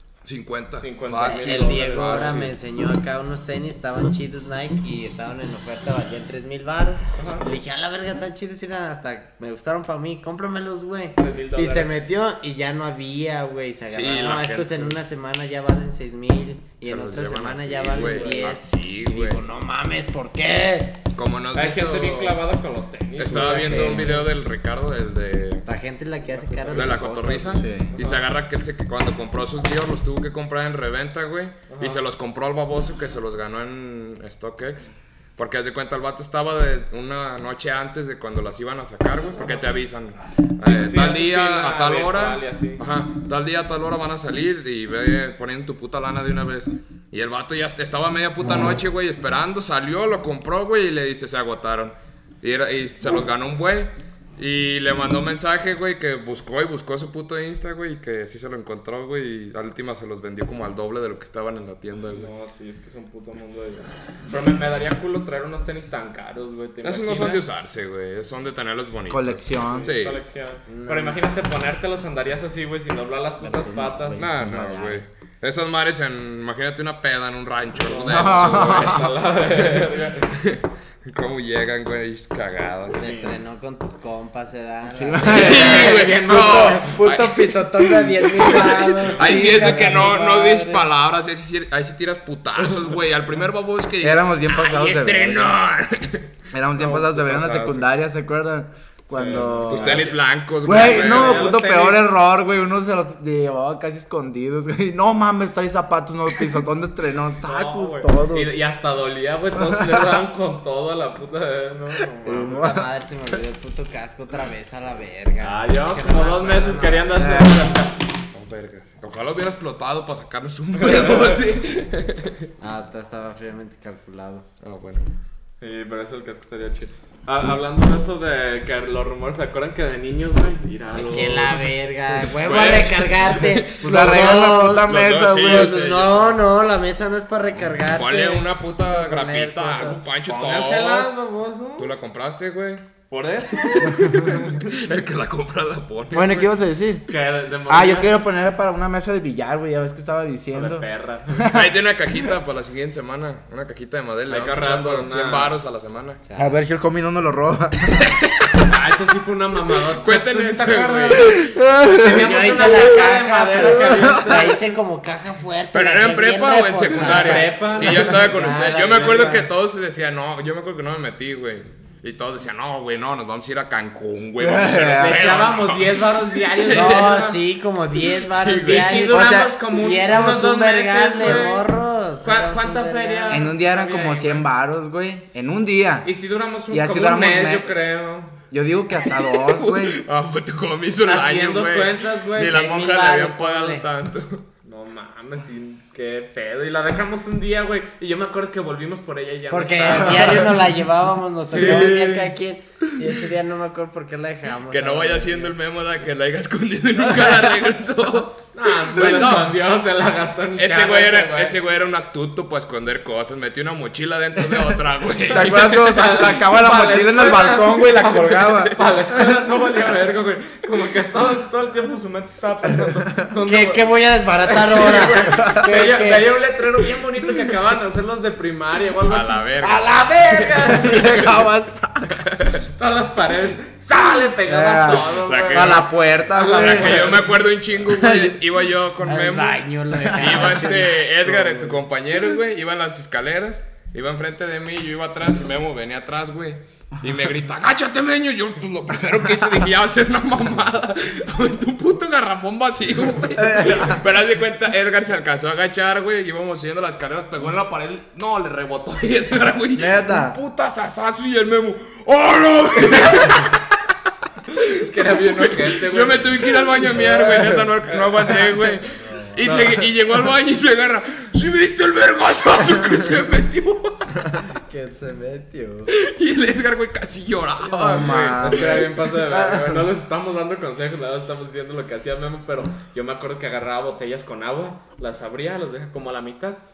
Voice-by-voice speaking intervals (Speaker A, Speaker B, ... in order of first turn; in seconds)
Speaker A: 0.2-2.5, 13.9-15.0, 16.8-19.4, 21.1-22.4, 23.2-25.6, 26.7-62.3, 66.8-70.2, 74.2-83.1, 85.3-97.9, 99.2-101.6, 118.3-122.5, 124.6-125.1, 132.5-132.8, 133.4-136.3, 137.9-141.1, 141.8-142.9, 143.5-146.5, 151.5-156.2, 159.9-161.5, 165.7-177.3, 178.2-179.1, 189.3-194.5, 204.7-209.6, 210.6-215.9, 229.1-231.3, 232.2-232.6, 234.8-263.8, 265.1-274.4, 275.9-279.0
Speaker B: 0.8-2.5, 7.1-7.5, 11.2-11.9, 17.7-18.5, 21.5-24.1, 26.3-27.0, 27.9-28.3, 31.7-32.0, 40.6-42.8, 62.1-67.5, 69.6-74.3, 77.8-80.4, 83.0-83.4, 85.3-86.9, 89.0-89.7, 99.1-102.1, 107.4-112.6, 115.4-118.0, 120.8-121.4, 125.6-131.6, 132.4-133.2, 140.3-142.0, 143.1-144.6, 147.1-148.2, 150.5-151.5, 154.3-155.6, 158.6-164.6, 166.9-168.2, 175.0-177.4, 178.6-181.7, 182.2-184.4, 186.1-188.4, 191.1-192.2, 194.7-200.6, 201.4-202.3, 208.5-211.6, 215.3-231.4, 232.8-237.4, 264.7-268.8, 269.4-269.8, 278.4-286.6
Speaker C: 1.2-21.0, 23.3-24.3, 25.6-27.7, 70.7-71.2, 83.0-90.8, 112.3-117.3, 122.6-124.5, 130.9-140.1, 156.2-156.6, 162.1-169.5, 176.7-183.5, 191.7-193.9, 199.5-205.5, 223.4-226.3, 229.9-230.7, 239.1-241.8, 269.1-269.5, 274.4-275.9
Speaker D: 23.9-24.1, 27.5-27.9, 69.1-70.0, 73.4-75.0, 78.1-79.1, 84.9-86.0, 89.5-90.0, 94.0-95.5, 96.5-100.1, 100.6-108.5, 109.7-110.0, 112.2-112.9, 117.2-117.5, 133.8-135.8, 143.9-144.3, 146.1-147.1, 147.7-151.7, 156.4-158.2, 161.2-162.2, 163.6-164.5, 174.4-175.5, 179.1-179.6, 183.3-186.1, 186.7-187.8, 188.5-190.0, 215.3-218.8, 225.3-225.7, 230.4-232.2, 234.4-237.2, 238.0-238.3, 240.0-240.6, 253.4-254.0, 259.8-260.4, 277.6-279.9